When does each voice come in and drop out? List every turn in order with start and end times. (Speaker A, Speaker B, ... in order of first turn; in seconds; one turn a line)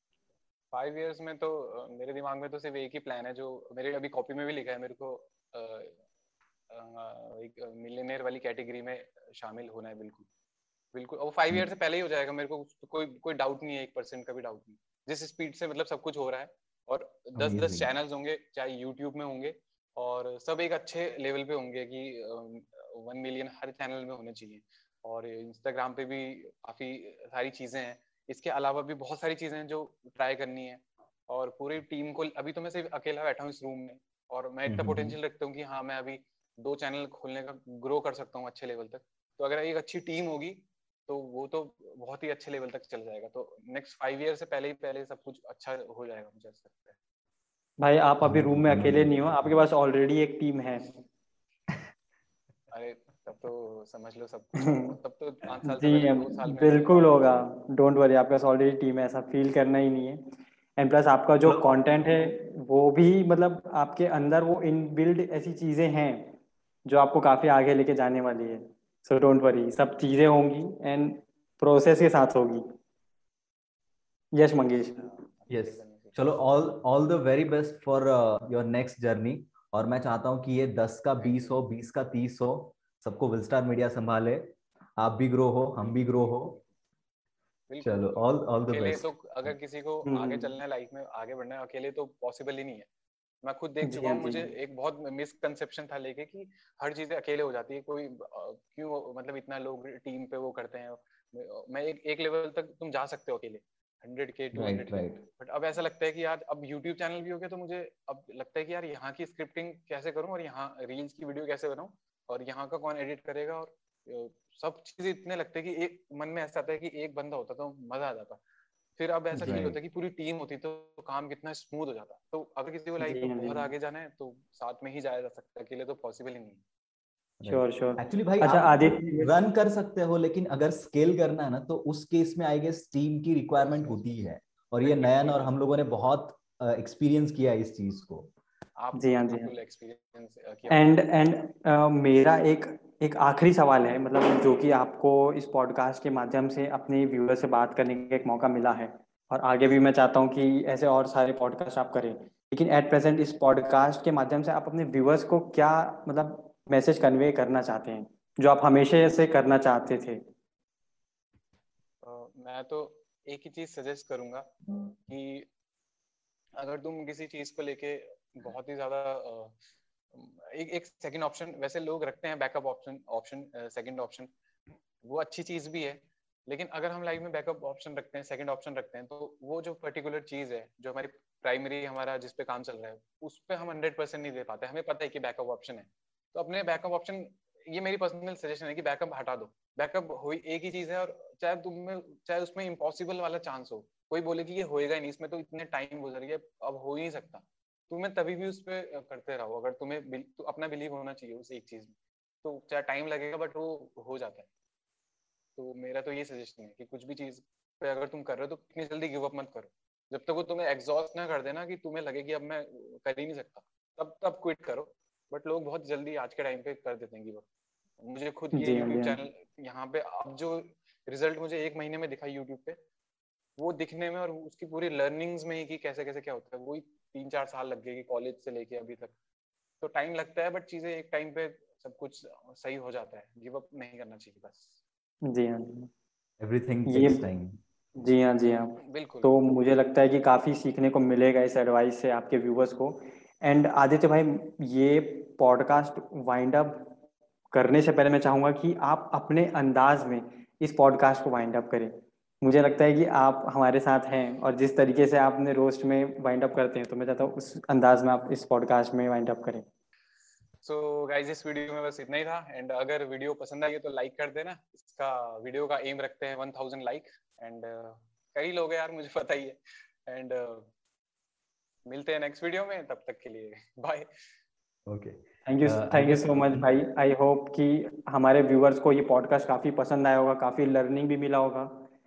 Speaker A: 0.7-6.0
Speaker A: 6.7-10.3
Speaker A: 10.9-47.0
Speaker B: 17.4-17.9
Speaker B: 34.7-35.2
Speaker C: 47.8-50.9
Speaker B: 48.2-49.4
Speaker A: 52.7-57.3
Speaker C: 54.7-54.9
Speaker C: 55.7-60.2
Speaker C: 60.8-72.7
Speaker A: 62.0-62.3
Speaker C: 74.3-75.2
Speaker A: 74.7-76.4
Speaker B: 75.5-86.6
Speaker A: 81.2-81.6
Speaker A: 85.8-86.6
Speaker A: 87.7-92.9
Speaker B: 87.8-89.5
Speaker C: 90.1-90.5
Speaker A: 93.4-118.4
Speaker C: 93.8-94.5
Speaker B: 104.5-105.2
Speaker A: 119.0-126.6
Speaker C: 119.4-119.6
Speaker B: 119.4-119.8
Speaker C: 123.0-123.7
Speaker B: 127.4-138.3
Speaker C: 127.5-129.3
Speaker A: 133.6-134.0
Speaker A: 134.8-135.6
Speaker A: 138.8-141.1
Speaker C: 138.9-139.5
Speaker C: 140.7-160.2
Speaker A: 162.0-164.5
Speaker A: 165.1-165.5
Speaker A: 166.6-169.6
Speaker A: 170.1-174.3
Speaker A: 175.0-204.5
Speaker A: 205.6-217.4
Speaker A: 218.0-222.8
Speaker C: 218.5-219.2
Speaker A: 223.6-229.2
Speaker A: 229.8-234.8
Speaker C: 235.3-235.9
Speaker B: 236.4-237.6
Speaker C: 236.9-237.2
Speaker C: 238.0-246.9
Speaker A: 238.8-239.4
Speaker C: 247.5-259.7
Speaker A: 260.6-270.7
Speaker A: 271.9-274.1
Speaker B: 274.9-276.6
Speaker C: 275.4-281.9